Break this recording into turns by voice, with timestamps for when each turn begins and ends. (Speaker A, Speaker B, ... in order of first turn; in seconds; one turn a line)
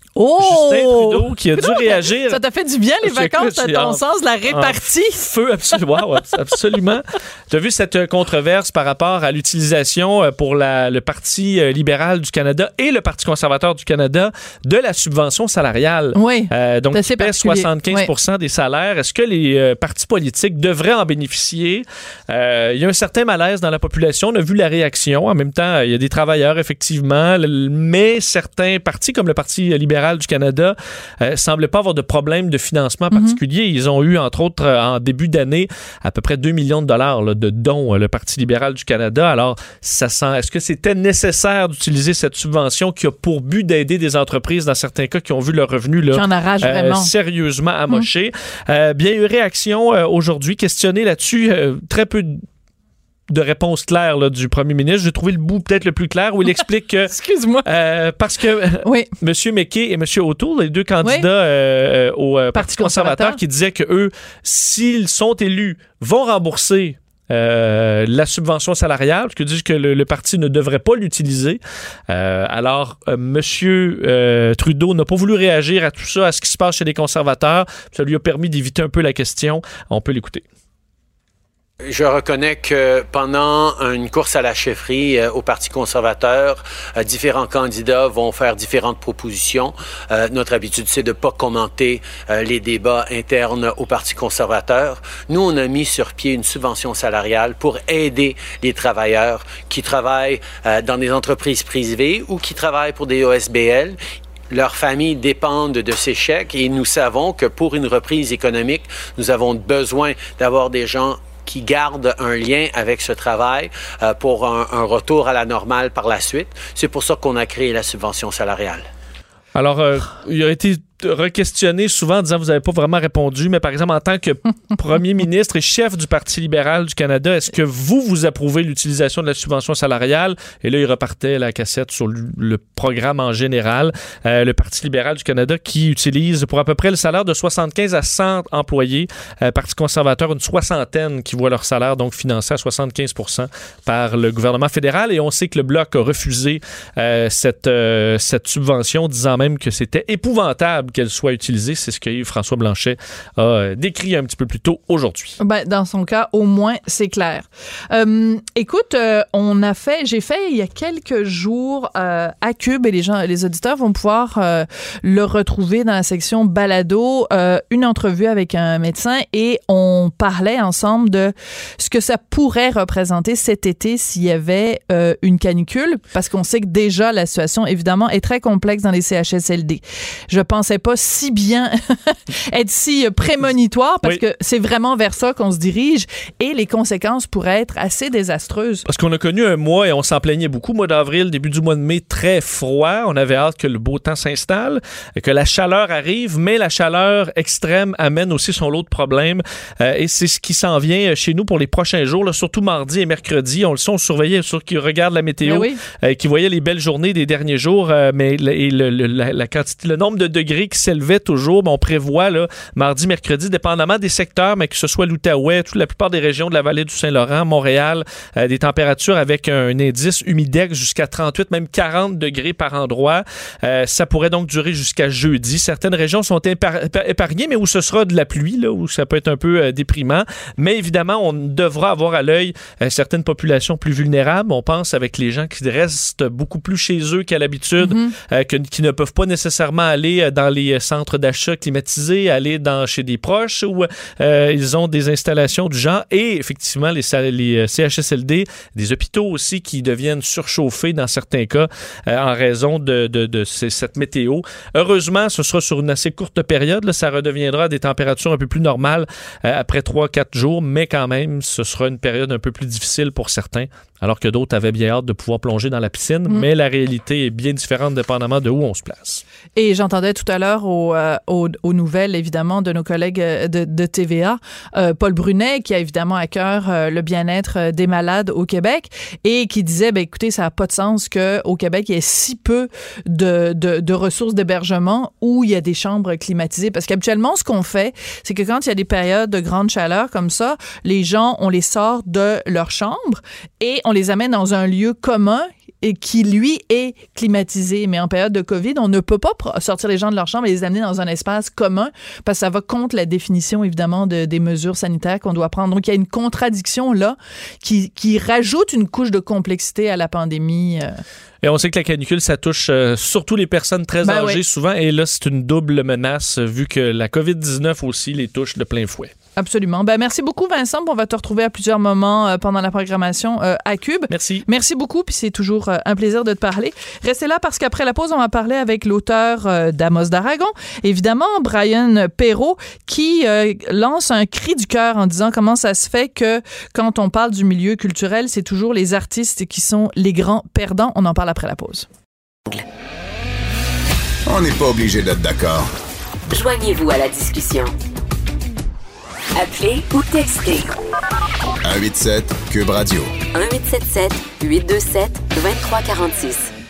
Speaker A: 0.2-5.3
Speaker B: 0.4-2.4
Speaker B: 3.0-52.4
Speaker A: 16.1-18.1
Speaker A: 33.1-33.4
Speaker A: 46.1-47.1
Speaker B: 53.3-57.1
Speaker A: 57.1-57.7
Speaker B: 57.6-80.5
Speaker A: 58.8-59.1
Speaker A: 62.6-63.4
Speaker C: 81.8-104.0
Speaker C: 104.5-118.8
Speaker B: 119.5-155.4
Speaker A: 155.4-188.8
Speaker B: 188.9-269.2
Speaker A: 205.4-205.8
Speaker A: 237.8-238.1
Speaker A: 269.6-311.0
Speaker B: 311.4-319.1
Speaker A: 314.0-314.4
Speaker A: 319.4-341.9
Speaker B: 324.1-324.5
Speaker D: 344.3-345.7
Speaker E: 346.3-347.7
Speaker E: 349.4-350.7
Speaker D: 351.6-353.1
Speaker E: 353.3-356.5